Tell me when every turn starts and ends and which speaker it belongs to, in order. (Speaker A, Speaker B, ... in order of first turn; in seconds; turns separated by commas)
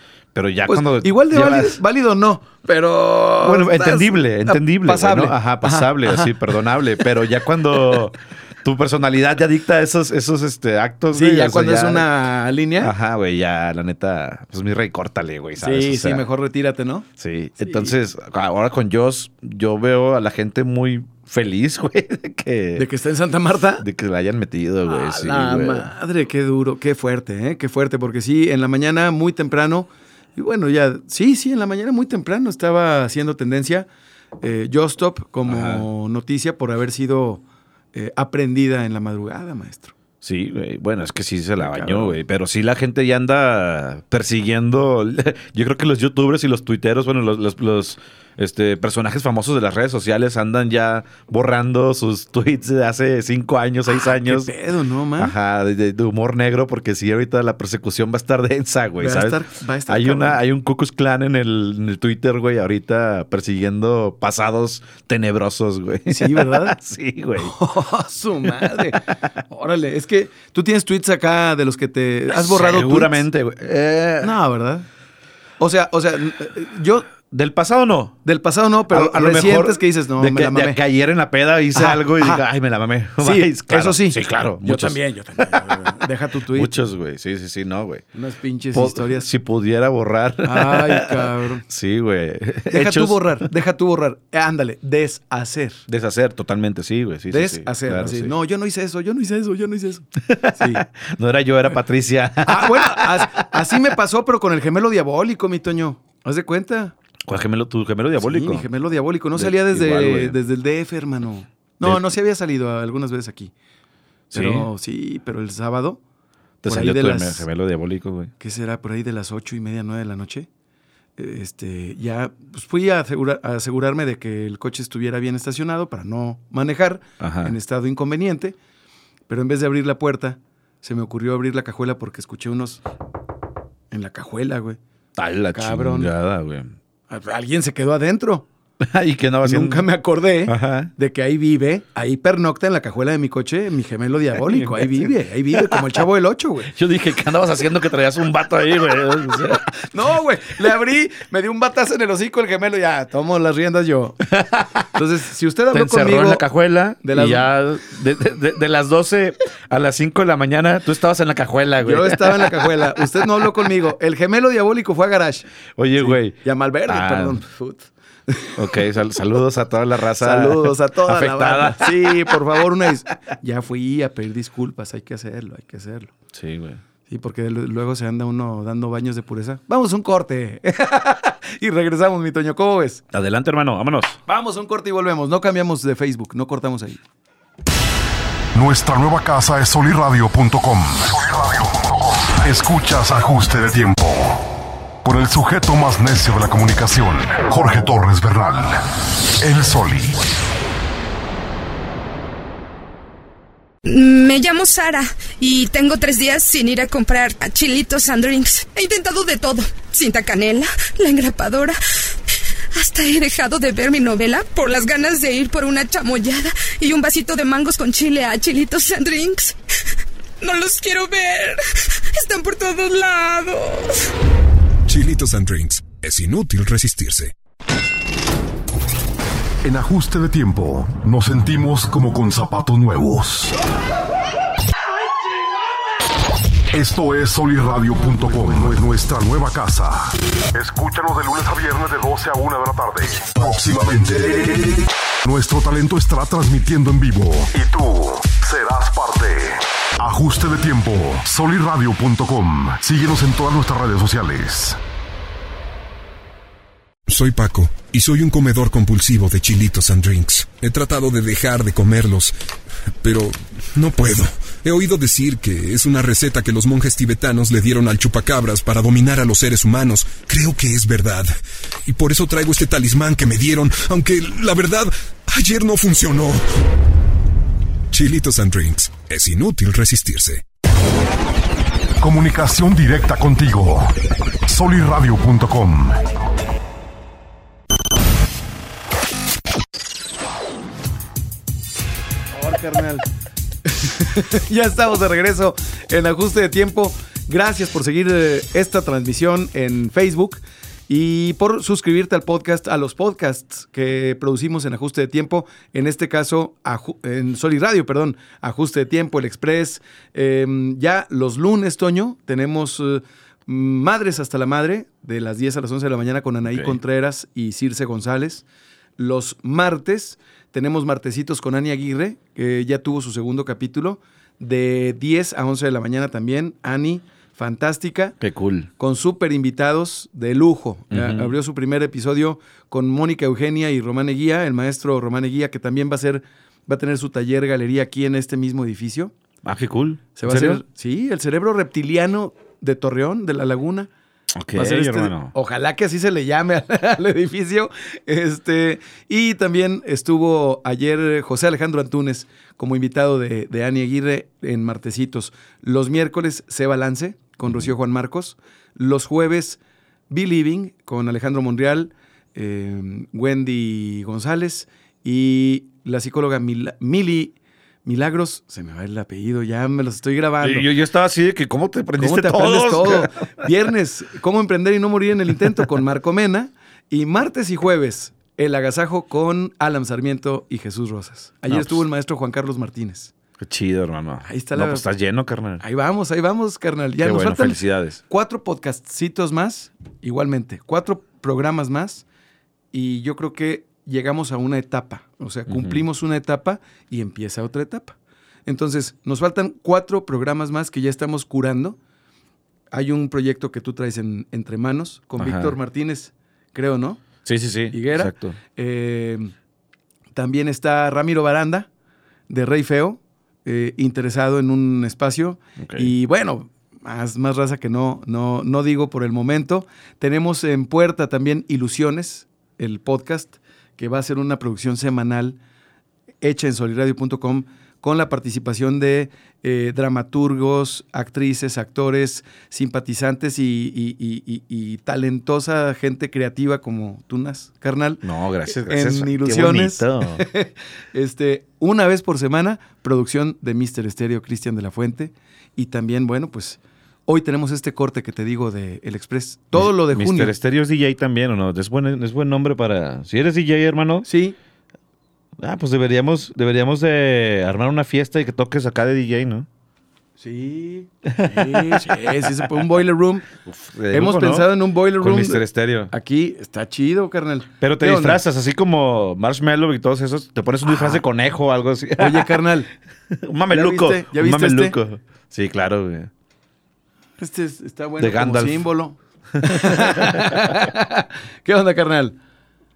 Speaker A: 0.3-1.8, Speaker B: 0.7-6.4, Speaker A: 3.4-12.1, Speaker B: 11.1-12.9, Speaker A: 12.8-16.3, Speaker B: 15.6-17.1, Speaker A: 17.2-22.9, Speaker B: 17.6-17.9, Speaker B: 22.8-23.9, Speaker A: 23.8-25.9, Speaker B: 24.9-33.9, Speaker B: 34.4-37.4, Speaker A: 35.5-35.9, Speaker B: 37.9-39.9, Speaker A: 40.2-54.5, Speaker B: 41.6-42.2, Speaker B: 53.9-55.4, Speaker A: 55.2-67.5, Speaker B: 59.0-60.4, Speaker B: 66.1-66.8, Speaker B: 67.4-73.2, Speaker A: 68.6-69.0, Speaker A: 72.3-74.3, Speaker B: 74.2-74.9, Speaker B: 75.6-77.1, Speaker A: 77.3-78.2, Speaker B: 78.2-80.8, Speaker A: 78.9-85.7, Speaker B: 81.7-82.4, Speaker B: 83.2-86.8, Speaker A: 86.5-88.1, Speaker B: 88.1-89.3, Speaker A: 88.7-93.4, Speaker B: 90.4-91.7, Speaker B: 92.7-95.8, Speaker A: 95.9-98.3, Speaker B: 97.3-100.8, Speaker A: 100.2-103.6, Speaker B: 102.5-107.0, Speaker A: 107.3-108.7, Speaker B: 108.2-113.5, Speaker A: 109.3-110.4, Speaker A: 114.3-114.7, Speaker B: 114.3-116.0, Speaker A: 116.6-118.3, Speaker B: 116.7-117.5, Speaker B: 118.4-120.5, Speaker B: 121.2-128.6, Speaker A: 127.2-127.5, Speaker B: 129.3-132.8, Speaker B: 133.9-134.8, Speaker A: 135.2-136.8, Speaker B: 135.5-136.1, Speaker B: 137.1-138.5, Speaker A: 138.8-139.9, Speaker B: 139.4-146.7, Speaker A: 140.5-140.9, Speaker A: 144.5-146.0, Speaker A: 146.6-149.7, Speaker B: 149.8-154.3, Speaker A: 154.3-154.9, Speaker B: 154.8-156.5, Speaker A: 155.7-163.6, Speaker B: 157.0-157.5, Speaker B: 161.8-168.7, Speaker A: 165.8-167.4, Speaker A: 168.6-172.6, Speaker B: 170.2-176.2, Speaker A: 176.3-176.8, Speaker B: 177.1-183.0, Speaker A: 183.1-184.2, Speaker B: 184.3-187.0, Speaker C: 188.5-194.5, Speaker C: 195.0-200.2, Speaker D: 203.8-211.8, Speaker D: 212.7-219.6, Speaker D: 220.4-224.1, Speaker E: 224.9-227.3, Speaker C: 229.6-233.6, Speaker C: 236.7-254.8, Speaker E: 257.1-262.3, Speaker E: 263.0-271.3, Speaker E: 271.9-276.4, Speaker E: 277.9-280.4, Speaker C: 282.0-286.0, Speaker B: 292.3-293.1, Speaker B: 293.7-318.5, Speaker A: 316.5-316.8, Speaker B: 319.0-328.2, Speaker A: 328.2-328.7, Speaker B: 328.8-339.1, Speaker A: 330.9-331.3, Speaker A: 339.4-340.6, Speaker B: 340.2-343.9, Speaker A: 344.4-345.3, Speaker B: 344.5-370.7, Speaker A: 370.4-373.1, Speaker B: 372.0-383.1, Speaker A: 381.5-381.9, Speaker A: 383.4-385.6, Speaker B: 384.2-384.9, Speaker B: 385.6-392.1, Speaker A: 387.0-388.0, Speaker B: 392.7-401.8, Speaker A: 395.5-395.8, Speaker B: 402.7-407.0, Speaker A: 405.2-405.6, Speaker A: 407.2-408.4, Speaker B: 407.7-409.3, Speaker B: 410.1-411.7, Speaker B: 412.3-425.4, Speaker A: 415.6-415.9, Speaker B: 426.2-450.3, Speaker A: 438.0-440.3, Speaker A: 449.6-454.1, Speaker B: 454.1-454.4, Speaker A: 455.4-459.5, Speaker B: 460.2-463.3, Speaker A: 461.1-462.5, Speaker A: 463.4-465.9, Speaker B: 463.9-468.2, Speaker A: 467.6-472.5, Speaker B: 470.6-471.0, Speaker B: 472.0-472.7, Speaker A: 473.1-476.1, Speaker B: 473.5-474.8, Speaker B: 477.2-482.2, Speaker A: 478.0-478.7, Speaker A: 479.4-480.6